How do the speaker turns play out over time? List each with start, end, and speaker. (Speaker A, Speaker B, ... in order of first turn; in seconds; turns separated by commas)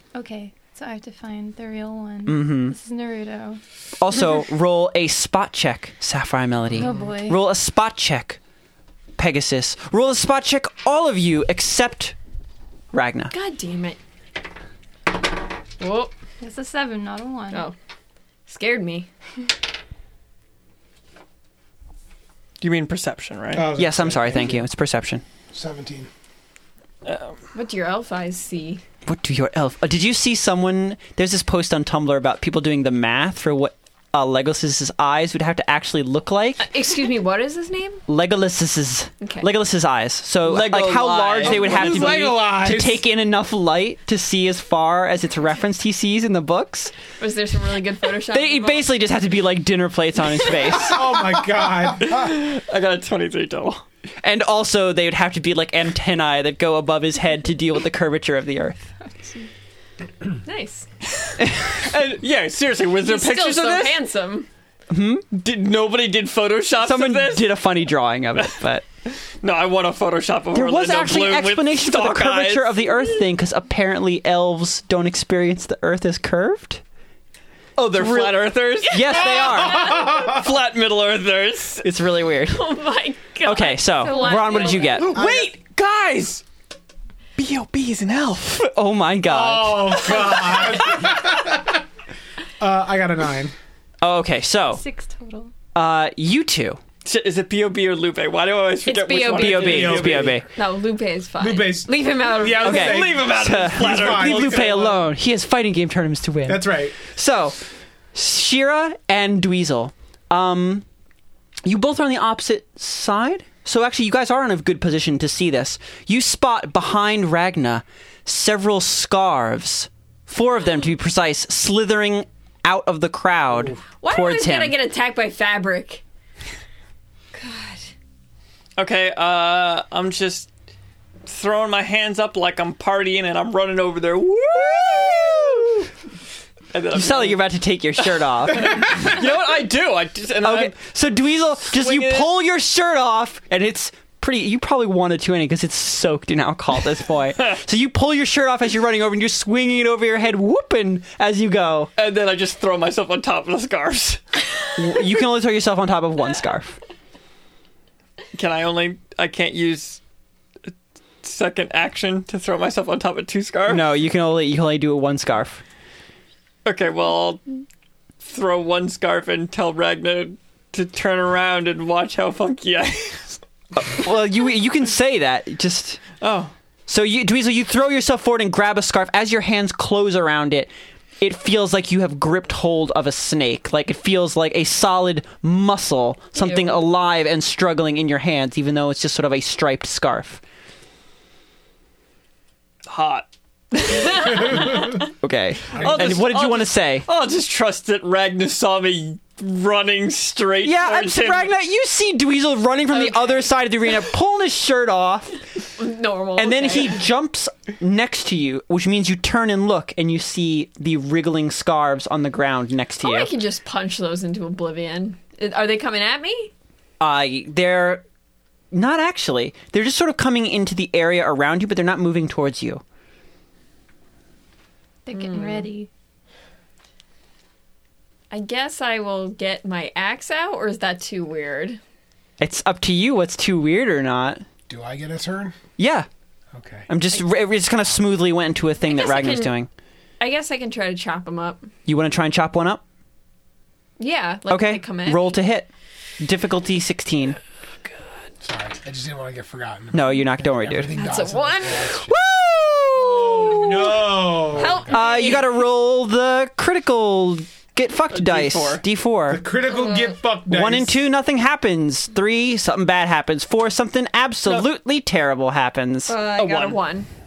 Speaker A: 0.1-3.6, Speaker B: 2.3-2.8, Speaker B: 4.0-8.4, Speaker A: 6.8-7.4, Speaker B: 9.2-12.2, Speaker B: 12.9-13.3, Speaker C: 13.3-14.0, Speaker C: 15.8-16.1, Speaker A: 16.4-17.7, Speaker C: 18.5-19.1, Speaker D: 22.6-23.7, Speaker E: 23.5-24.7, Speaker B: 23.8-25.2, Speaker F: 25.5-26.1, Speaker D: 27.0-27.4, Speaker C: 27.5-28.8, Speaker B: 29.1-36.7, Speaker C: 36.6-38.0, Speaker B: 38.1-46.9, Speaker C: 39.2-39.5, Speaker D: 40.4-42.4, Speaker E: 41.4-43.0, Speaker C: 47.2-48.9, Speaker B: 48.3-51.0, Speaker E: 50.8-52.2, Speaker D: 52.0-53.8, Speaker B: 54.2-58.8, Speaker A: 59.2-59.5, Speaker C: 60.4-60.9, Speaker B: 61.4-61.9, Speaker D: 61.7-64.0, Speaker C: 63.0-64.5, Speaker B: 64.9-65.2, Speaker D: 65.3-67.6, Speaker B: 66.8-68.8, Speaker D: 68.4-73.0, Speaker B: 70.5-76.8, Speaker D: 77.8-81.9, Speaker B: 77.9-80.0, Speaker C: 78.8-80.4, Speaker E: 79.6-80.4, Speaker B: 81.8-82.7, Speaker C: 82.5-85.1, Speaker B: 83.4-85.1, Speaker A: 84.0-85.0, Speaker D: 85.0-86.4, Speaker E: 85.2-85.5, Speaker D: 87.4-88.7, Speaker B: 88.7-90.2, Speaker E: 89.3-91.8, Speaker E: 92.6-93.5, Speaker B: 94.0-94.8, Speaker A: 94.7-95.5, Speaker B: 95.7-96.8, Speaker D: 97.0-100.4, Speaker C: 98.9-103.1, Speaker B: 99.4-100.5, Speaker E: 99.6-100.4, Speaker E: 101.4-105.0, Speaker B: 102.6-107.6, Speaker D: 102.7-105.0, Speaker E: 106.5-107.0, Speaker B: 108.1-110.8, Speaker B: 111.7-124.8, Speaker C: 123.9-126.0, Speaker C: 127.3-127.9, Speaker D: 128.8-130.5, Speaker D: 131.3-135.7, Speaker B: 134.6-135.8, Speaker D: 136.7-137.4, Speaker B: 136.9-139.0, Speaker D: 138.0-140.8, Speaker B: 140.4-151.9, Speaker D: 141.7-142.3, Speaker D: 152.0-154.2, Speaker B: 154.8-156.8, Speaker D: 158.3-160.0, Speaker D: 161.2-163.8, Speaker B: 163.7-165.6, Speaker D: 166.7-167.4, Speaker D: 168.2-173.4, Speaker B: 173.8-176.0, Speaker D: 176.2-176.5, Speaker B: 176.9-190.4, Speaker D: 186.4-186.8, Speaker D: 192.9-195.0, Speaker C: 193.9-195.0, Speaker B: 195.2-197.1, Speaker D: 195.7-201.5, Speaker B: 200.6-205.4, Speaker C: 202.9-203.5, Speaker C: 205.8-207.0, Speaker B: 206.4-213.3, Speaker C: 213.0-216.5, Speaker B: 217.0-218.0, Speaker B: 218.7-222.8, Speaker A: 225.1-225.9, Speaker C: 225.1-225.7, Speaker C: 228.3-231.8, Speaker B: 232.4-234.4, Speaker F: 234.7-235.6, Speaker B: 235.8-236.1, Speaker F: 236.5-236.9, Speaker B: 236.9-239.7, Speaker C: 238.8-239.6, Speaker C: 240.2-241.7, Speaker B: 241.9-242.8, Speaker C: 244.0-245.4, Speaker B: 244.5-247.4, Speaker F: 248.4-252.1, Speaker B: 249.9-250.9, Speaker C: 250.9-252.1, Speaker B: 252.1-253.6, Speaker C: 252.9-255.7, Speaker E: 253.5-254.8, Speaker F: 254.6-255.0, Speaker B: 254.9-259.4, Speaker D: 258.1-258.8, Speaker E: 259.3-261.0, Speaker C: 259.6-260.2, Speaker B: 260.5-266.2, Speaker C: 266.1-267.1, Speaker D: 266.4-266.8